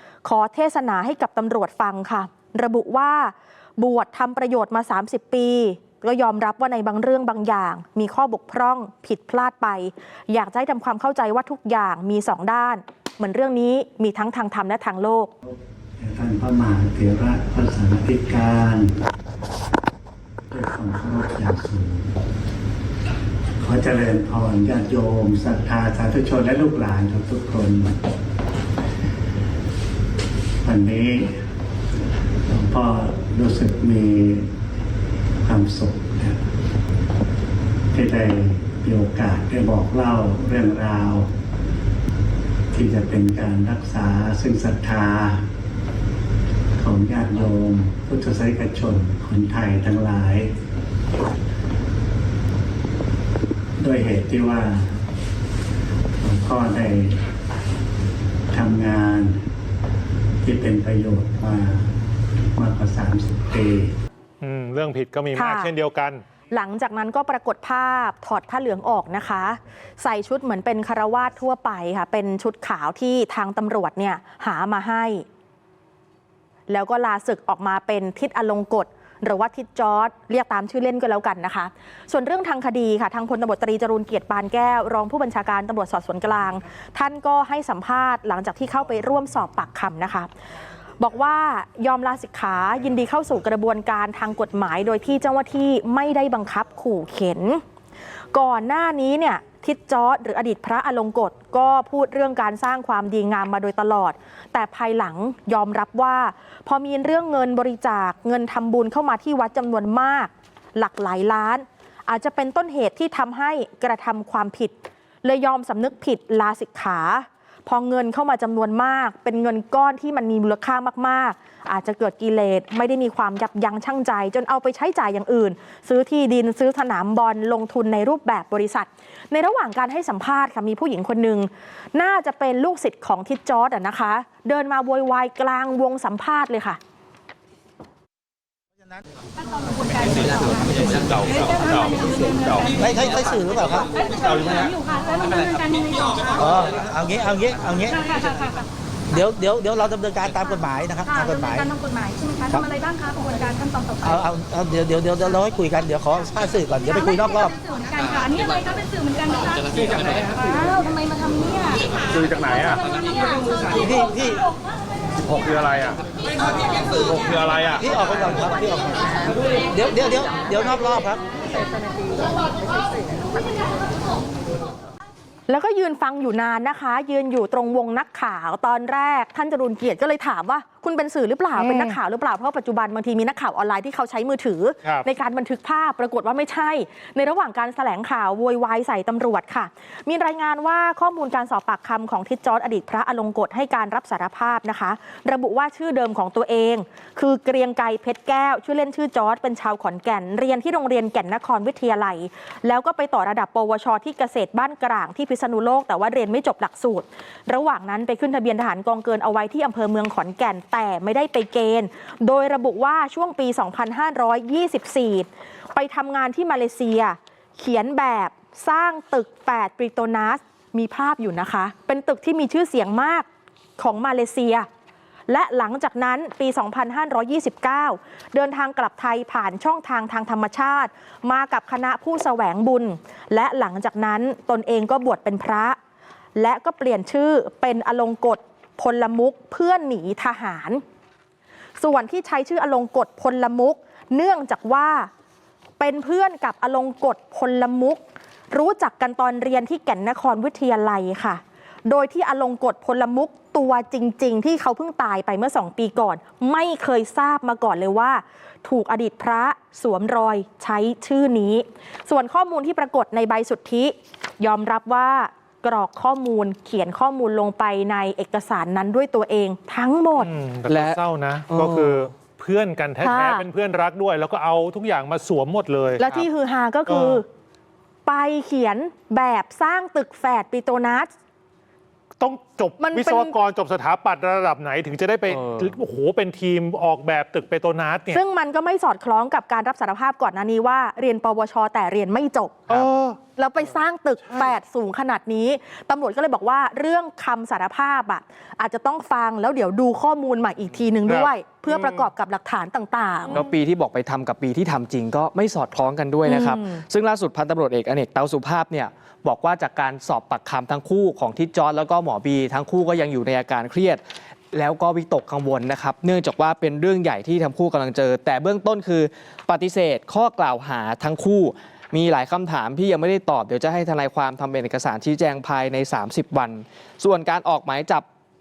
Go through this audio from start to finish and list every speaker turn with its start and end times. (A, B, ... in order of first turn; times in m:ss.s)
0:00.2-0:15.3 A
0:15.5-0:18.9 B
0:20.5-0:22.1 B
0:23.6-0:28.0 B
0:30.6-0:31.4 B
0:32.5-0:34.5 B
0:35.4-0:36.4 B
0:37.9-0:41.3 B
0:42.7-0:45.4 B
0:46.8-0:50.5 B
0:53.8-0:55.0 B
0:56.2-0:57.2 B
0:58.5-0:59.4 B
1:00.4-1:01.9 B
1:02.6-1:03.9 B
1:04.4-1:06.2 C
1:05.4-1:05.7 A
1:06.5-1:15.2 A
1:16.7-1:30.3 A
1:31.0-1:37.6 A
1:38.3-2:16.8 A
2:19.4-2:22.9 D
2:22.7-2:24.6 E
2:24.1-2:26.3 D
2:26.4-2:28.0 E
2:27.9-2:28.4 D
2:29.1-2:31.7 E
2:31.1-2:34.2 D
2:34.0-2:37.5 E
2:36.9-2:41.8 D
2:43.7-2:44.4 E
2:47.8-2:51.2 E
2:55.5-3:43.3 A
3:01.6-3:02.0 C
3:43.8-3:44.7 A
3:45.3-3:55.8 A
3:56.4-4:00.8 A
4:01.8-4:05.1 A
4:05.8-4:30.3 A
4:30.2-4:36.3 C
4:30.7-4:31.0 F
4:31.5-4:32.0 F
4:33.0-4:33.5 A
4:36.0-4:37.2 A
4:36.9-4:37.2 C
4:38.1-4:41.1 A
4:42.2-4:48.2 C
4:42.8-4:43.3 A
4:48.1-4:52.8 A
4:52.7-4:53.2 C
4:53.4-5:03.4 A
5:01.0-5:02.1 C
5:03.3-5:14.0 F
5:06.2-5:06.8 A
5:14.5-5:28.0 F